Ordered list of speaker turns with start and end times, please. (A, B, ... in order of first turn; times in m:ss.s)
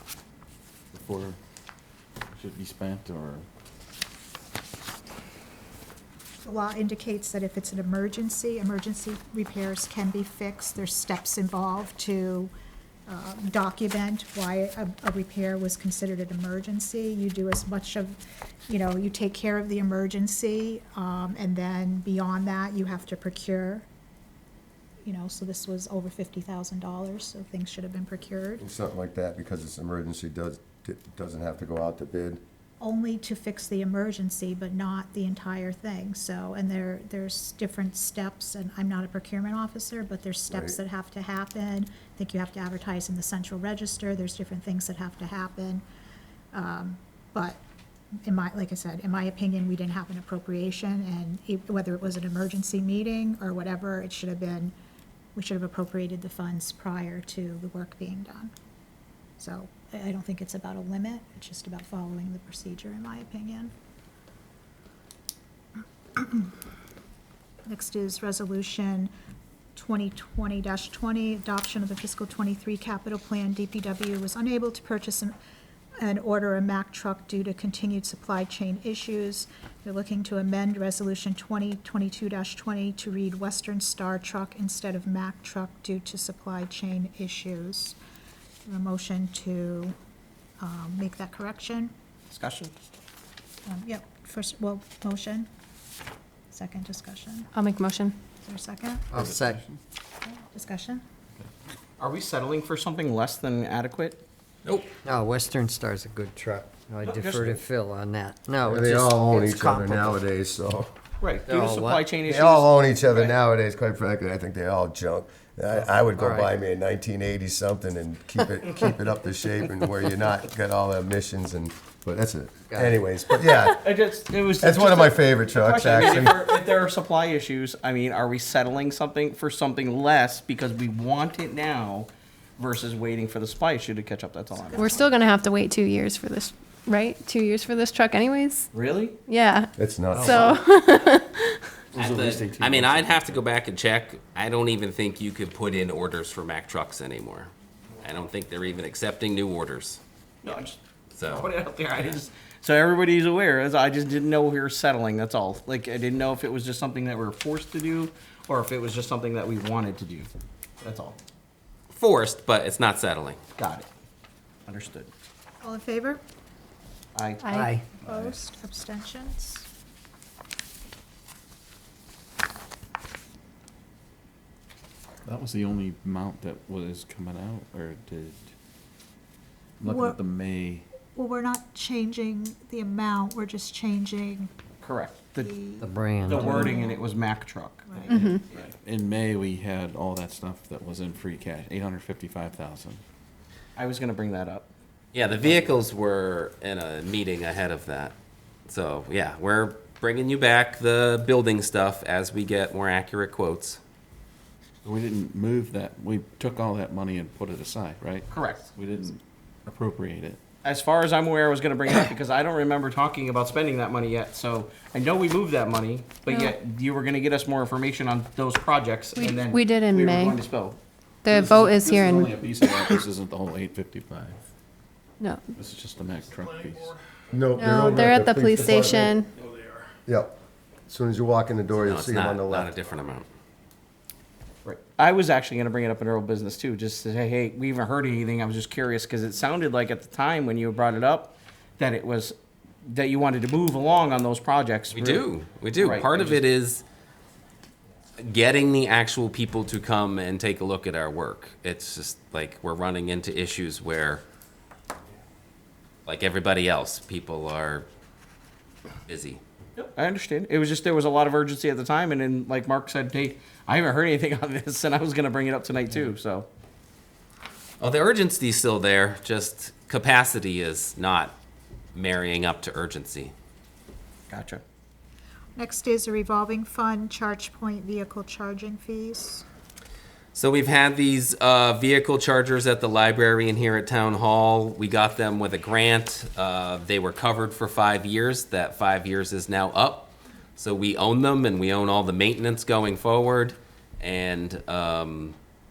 0:00.9-0:01.4 A
0:02.4-0:03.5 A
0:06.4-0:12.5 B
0:13.1-0:23.9 B
0:25.0-0:28.6 B
0:28.6-0:32.4 C
0:32.8-0:45.8 B
0:40.5-0:40.8 C
0:46.5-0:47.6 B
0:48.2-0:54.7 B
0:55.4-0:58.5 B
0:59.4-1:03.7 B
1:06.2-1:06.5 B
1:07.7-1:09.1 B
1:09.8-1:15.4 B
1:16.0-1:28.0 B
1:28.7-1:30.0 B
1:30.6-1:31.9 B
1:32.3-1:32.7 D
1:33.7-1:35.5 B
1:36.5-1:37.5 B
1:37.5-1:38.2 E
1:38.4-1:39.1 B
1:39.1-1:39.8 A
1:39.2-1:39.6 F
1:40.2-1:41.0 B
1:42.0-1:44.2 D
1:45.0-1:50.2 F
1:47.0-1:47.6 D
1:48.7-1:50.9 C
1:51.2-1:53.3 D
1:51.5-1:52.0 F
1:52.3-2:03.8 C
1:56.2-1:56.5 F
1:58.6-1:58.9 D
2:03.7-2:14.9 D
2:04.6-2:06.5 C
2:14.7-2:18.7 E
2:14.8-2:15.1 B
2:18.7-2:19.2 D
2:19.3-2:21.6 E
2:19.8-2:20.6 C
2:20.1-2:20.5 A
2:21.9-2:23.4 A
2:22.0-2:27.5 G
2:28.0-2:30.0 G
2:30.4-2:40.3 D
2:31.1-2:31.5 G
2:40.8-2:41.2 D
2:42.0-2:43.4 G
2:43.6-2:43.9 D
2:44.7-2:45.1 D
2:45.6-2:46.2 B
2:47.2-2:47.6 D
2:47.4-2:47.7 E
2:47.6-2:47.8 F
2:47.9-2:49.7 B
2:48.0-2:48.4 A
2:55.2-2:58.5 A
2:59.8-3:00.9 A
2:59.8-3:00.2 B
3:01.2-3:04.5 B
3:04.8-3:05.6 D
3:05.4-3:07.0 B
3:05.8-3:06.4 F
3:06.2-3:08.7 D
3:07.9-3:08.3 B
3:08.1-3:08.4 E
3:08.8-3:13.0 A
3:13.8-3:14.7 D
3:15.1-3:18.1 G
3:18.7-3:23.8 G
3:24.8-3:30.4 A
3:28.3-3:28.7 D
3:30.6-3:40.8 D
3:36.3-3:36.5 E
3:39.2-3:40.4 E
3:41.2-3:42.4 E
3:41.3-3:44.4 A
3:45.2-3:45.5 E
3:45.5-3:47.0 A
3:47.3-3:49.2 C
3:47.6-3:49.3 E
3:50.1-3:50.4 C
3:50.9-3:52.7 C
3:51.8-3:53.3 G
3:54.6-4:06.4 D
4:04.9-4:06.8 G
4:08.2-4:14.2 G
4:16.1-4:17.9 G
4:19.1-4:19.4 G
4:19.8-4:26.5 D
4:27.8-4:31.4 G
4:31.9-4:33.3 G
4:34.3-4:34.6 D
4:35.6-4:39.4 B
4:40.3-4:55.4 G